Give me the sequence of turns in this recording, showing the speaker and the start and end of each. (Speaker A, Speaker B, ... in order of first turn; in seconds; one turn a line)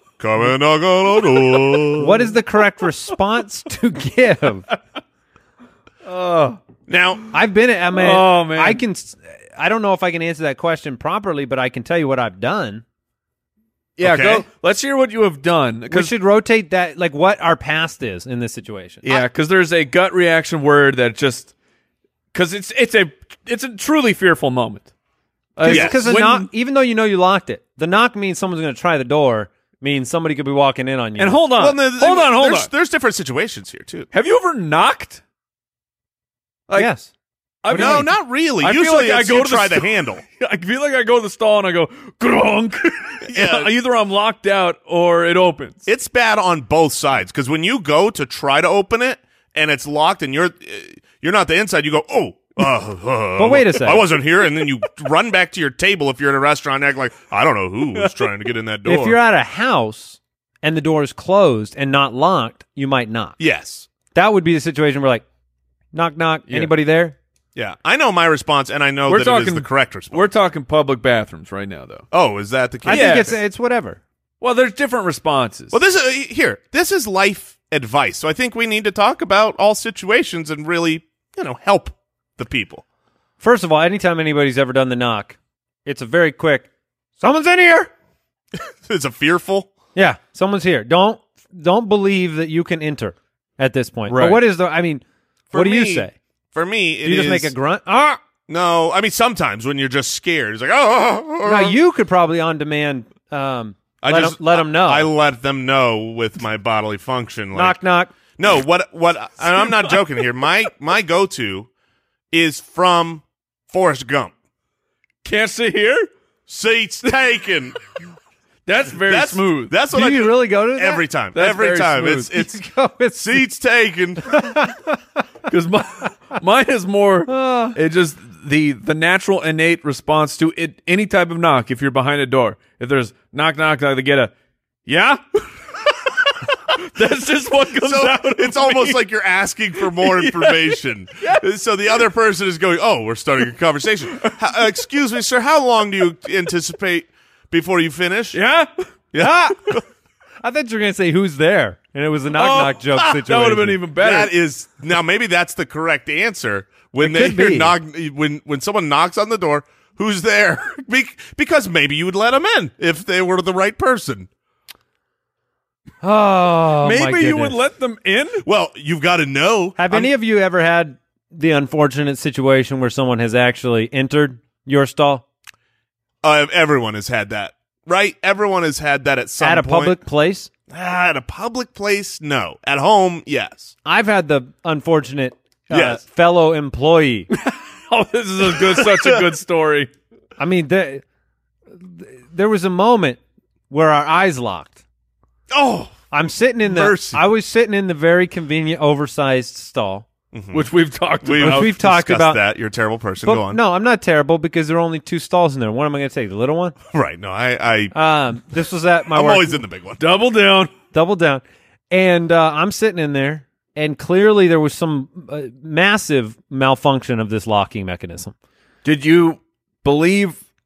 Speaker A: 0.2-2.3
Speaker B: 2.0-4.7
Speaker C: 6.0-6.6
Speaker A: 6.9-7.3
Speaker B: 7.3-12.8
Speaker C: 8.0-8.8
Speaker C: 14.0-16.1
Speaker A: 14.0-14.4
Speaker B: 15.9-19.2
Speaker C: 19.0-21.5
Speaker C: 22.3-24.9
Speaker C: 25.6-26.5
Speaker B: 25.6-31.4
Speaker A: 25.6-26.0
Speaker C: 31.2-32.7
Speaker A: 31.6-34.1
Speaker C: 34.1-35.2
Speaker B: 36.8-37.1
Speaker C: 37.6-45.9
Speaker B: 37.7-38.1
Speaker A: 37.7-40.2
Speaker A: 43.3-43.7
Speaker A: 45.9-59.2
Speaker B: 53.4-54.1
Speaker C: 58.0-58.3
Speaker B: 58.9-63.4
Speaker A: 63.4-63.9
Speaker B: 64.1-65.2
Speaker B: 65.9-67.2
Speaker A: 67.5-70.3
Speaker C: 69.1-72.1
Speaker A: 72.1-73.4
Speaker C: 72.9-73.4
Speaker B: 72.9-74.0
Speaker C: 74.4-75.8
Speaker A: 75.7-82.8
Speaker B: 83.4-87.9
Speaker A: 88.6-89.7
Speaker B: 90.0-96.1
Speaker C: 94.1-94.4
Speaker A: 95.5-97.5
Speaker B: 97.0-98.2
Speaker A: 98.5-101.8
Speaker B: 101.4-105.1
Speaker A: 104.0-107.8
Speaker B: 107.5-108.1
Speaker A: 108.4-111.7
Speaker C: 109.5-110.0
Speaker A: 112.3-114.3
Speaker C: 115.2-116.1
Speaker A: 116.5-117.8
Speaker C: 118.7-119.8
Speaker A: 119.1-122.6
Speaker B: 119.9-121.0
Speaker C: 121.3-122.3
Speaker B: 122.1-123.4
Speaker A: 123.2-124.5
Speaker B: 124.3-125.0
Speaker C: 125.5-134.3
Speaker B: 127.3-127.8
Speaker C: 134.9-139.0
Speaker A: 137.8-148.4
Speaker C: 139.8-141.4
Speaker C: 148.3-148.8
Speaker A: 149.1-149.8
Speaker B: 149.2-149.8
Speaker B: 150.4-154.0
Speaker C: 152.3-154.3
Speaker A: 154.0-164.3
Speaker B: 157.0-157.8
Speaker B: 166.0-167.6
Speaker C: 166.8-168.4
Speaker A: 168.4-170.1
Speaker B: 169.8-175.2
Speaker A: 176.2-180.0
Speaker B: 179.4-180.5
Speaker A: 180.7-183.7
Speaker B: 183.8-187.3
Speaker A: 185.7-186.0
Speaker C: 187.3-189.9
Speaker A: 188.6-189.2
Speaker B: 190.4-191.0
Speaker B: 191.8-194.8
Speaker A: 195.5-196.0
Speaker B: 196.1-200.1
Speaker A: 196.6-197.2
Speaker A: 200.3-200.7
Speaker C: 200.5-201.7
Speaker A: 201.2-203.6
Speaker B: 201.4-202.4
Speaker B: 203.2-206.8
Speaker A: 206.9-207.9
Speaker B: 207.9-209.6
Speaker A: 209.1-210.0
Speaker C: 210.0-210.7
Speaker B: 210.9-218.3
Speaker C: 218.8-220.4